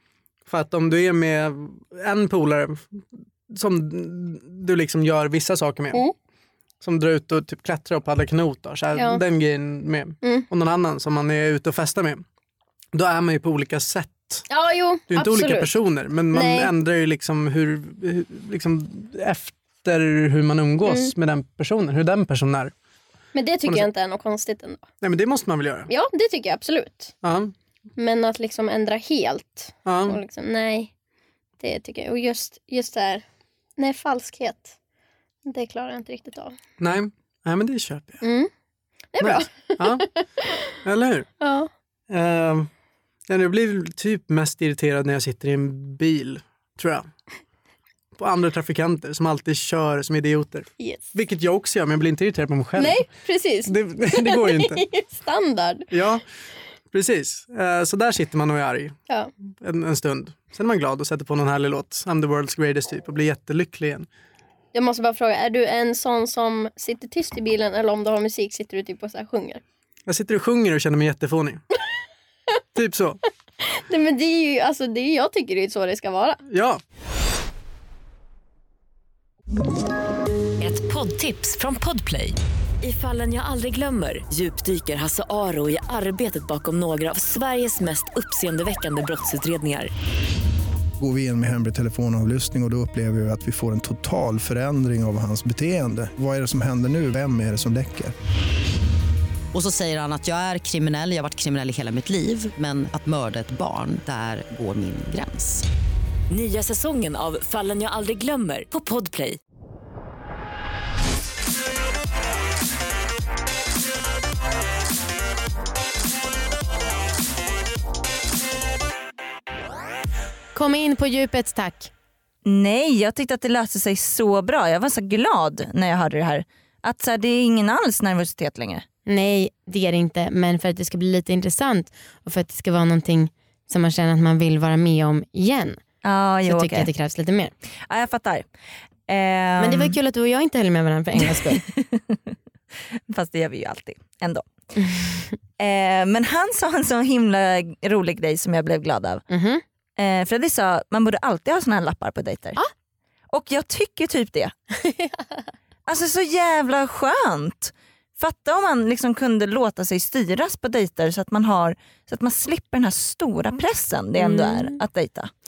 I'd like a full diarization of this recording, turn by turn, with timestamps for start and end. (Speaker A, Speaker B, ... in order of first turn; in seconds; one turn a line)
Speaker A: 0.5-6.0
Speaker A: 6.8-12.2
Speaker B: 8.9-9.2
Speaker B: 10.2-10.5
Speaker A: 12.9-14.4
Speaker B: 14.5-15.7
Speaker A: 15.1-22.7
Speaker B: 16.3-16.7
Speaker B: 20.8-21.1
Speaker B: 23.3-24.9
Speaker A: 25.0-25.9
Speaker B: 25.9-27.1
Speaker A: 27.2-27.5
Speaker B: 28.0-30.9
Speaker A: 29.9-30.2
Speaker B: 31.6-33.2
Speaker B: 33.8-34.7
Speaker B: 35.5-36.6
Speaker A: 36.8-38.2
Speaker B: 38.2-38.5
Speaker B: 39.1-40.6
Speaker A: 39.2-40.0
Speaker A: 40.8-41.3
Speaker B: 41.4-41.7
Speaker A: 42.1-42.7
Speaker A: 43.3-47.1
Speaker A: 48.2-53.0
Speaker B: 52.8-55.9
Speaker A: 53.7-54.8
Speaker A: 55.9-56.2
Speaker A: 56.9-58.9
Speaker A: 59.6-64.1
Speaker B: 64.7-69.6
Speaker A: 70.1-71.6
Speaker A: 72.7-73.2
Speaker B: 73.6-76.4
Speaker A: 76.5-76.8
Speaker C: 80.6-89.9
Speaker D: 91.0-98.1
Speaker E: 99.5-105.7
Speaker C: 106.3-109.4
Speaker F: 120.5-121.9
Speaker G: 122.4-128.8
Speaker F: 129.1-135.8
Speaker G: 136.0-136.9
Speaker F: 136.4-137.5
Speaker G: 137.9-138.4
Speaker G: 139.1-139.9
Speaker F: 139.6-141.6
Speaker G: 141.3-142.3
Speaker G: 143.1-144.5
Speaker F: 144.8-145.2
Speaker G: 145.6-149.2
Speaker F: 149.3-149.6
Speaker G: 150.0-152.6
Speaker G: 153.3-154.5
Speaker G: 155.8-165.3
Speaker F: 164.2-164.8